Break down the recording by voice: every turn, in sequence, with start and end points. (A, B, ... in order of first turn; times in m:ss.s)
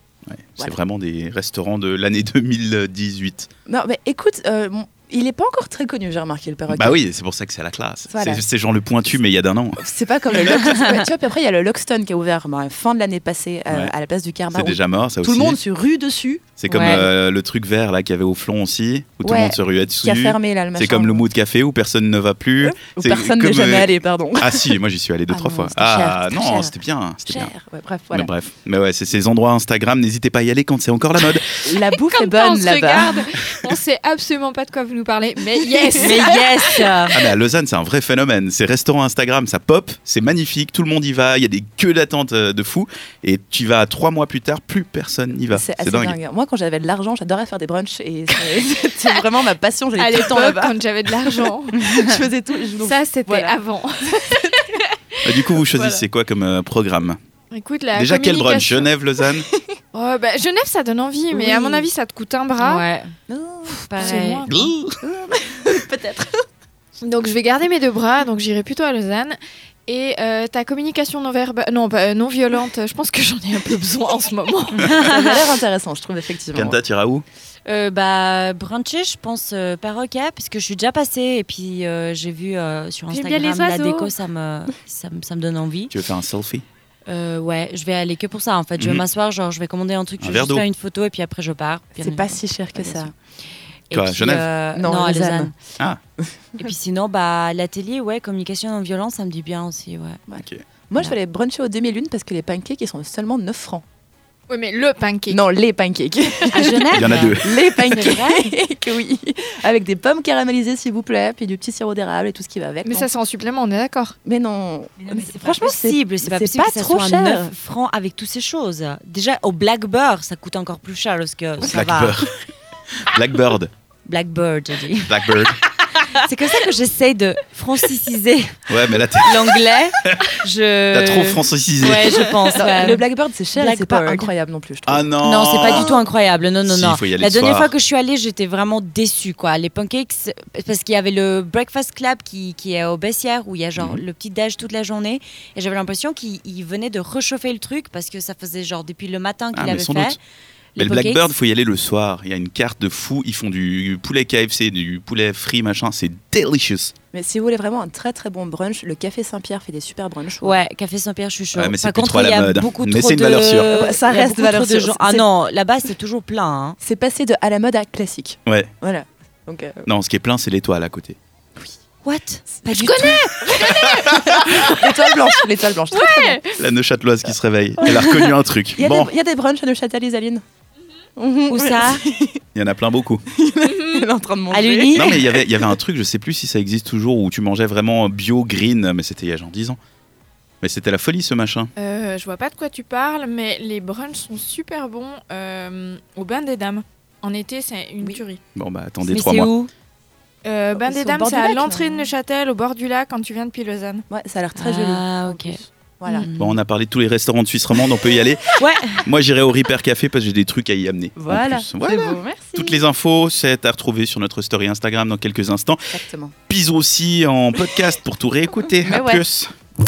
0:00.3-0:03.5 A
0:03.6-0:07.0 B
0:06.7-0:09.8 A
0:08.1-0:08.4 B
0:09.8-0:16.9 B
0:10.3-0:10.6 A
0:13.7-0:13.9 A
0:14.5-0:15.6 A
0:16.6-0:27.5 A
0:16.7-0:17.0 C
0:19.2-0:21.3 B
0:22.6-0:24.7 B
0:25.3-0:26.7 B
0:27.3-0:28.3 B
0:28.1-0:31.6 A
0:31.6-0:33.4 B
0:32.0-0:37.1 D
0:36.0-0:37.2 C
0:37.1-0:46.2 A
0:45.5-0:53.5 B
0:49.9-0:52.1 D
0:52.8-0:56.0 D
0:55.2-0:57.2 A
0:57.5-0:58.9 D
0:57.9-0:59.5 A
0:59.9-1:02.8 D
1:01.3-1:01.7 B
1:02.6-1:03.1 C
1:03.3-1:04.3 B
1:03.7-1:04.5 C
1:04.0-1:04.5 D
1:04.5-1:05.0 A
1:05.0-1:06.4 B
1:07.0-1:15.1 D
1:14.8-1:15.4 C
1:15.0-1:16.8 B
1:16.5-1:17.2 A
1:17.6-1:25.9 C
1:23.1-1:24.1 D
1:25.9-1:26.6 A
1:27.1-1:33.0 C
1:28.8-1:29.1 A
1:30.2-1:30.6 A
1:32.0-1:33.1 B
1:33.9-1:35.5 C
1:33.9-1:34.5 A
1:34.7-1:35.5 B
1:36.2-1:36.7 B
1:36.6-1:40.2 C
1:40.3-1:43.8 B
1:44.5-1:45.4 D
1:45.3-1:53.1 B
1:46.5-1:48.4 C
1:46.9-1:47.6 A
1:52.8-1:54.1 D
1:54.2-1:57.5 B
1:55.1-2:02.1 C
2:01.6-2:02.3 A
2:03.0-2:03.7 A
2:04.0-2:05.1 C
2:05.1-2:05.6 A
2:06.2-2:08.4 C
2:08.7-2:10.3 A
2:09.2-2:13.0 C
2:10.9-2:12.3 A
2:12.5-2:15.1 B
2:13.6-2:14.3 C
2:14.9-2:16.0 A
2:15.2-2:30.2 C
2:16.6-2:17.7 A
2:23.8-2:24.0 A
2:29.5-2:30.2 A
2:30.8-2:31.3 C
2:30.8-2:36.9 A
2:37.1-2:40.6 B
2:40.4-2:46.8 C
2:41.5-2:43.7 A
2:43.6-2:45.3 B
2:46.8-2:49.8 B
2:49.9-2:51.2 A
2:52.0-2:53.2 C
2:52.5-2:56.4 B
2:52.9-2:54.7 D
2:55.9-2:56.6 D
2:56.6-2:59.1 A
2:57.8-3:00.4 B
3:01.2-3:02.4 B
3:01.5-3:02.0 C
3:02.5-3:03.2 A
3:03.3-3:05.7 B
3:03.6-3:04.1 D
3:04.5-3:05.1 C
3:04.9-3:09.8 A
3:10.6-3:11.7 A
3:11.8-3:18.4 D
3:18.5-3:19.5 A
3:19.0-3:19.7 C
3:20.4-3:24.0 D
3:20.7-3:22.1 B
3:24.1-3:26.3 B
3:24.6-3:25.6 C
3:26.2-3:26.5 C
3:26.4-3:35.9 A
3:28.6-3:29.0 C
3:31.2-3:32.8 B
3:35.9-3:36.3 B
3:36.5-3:39.5 A
3:38.8-3:39.2 B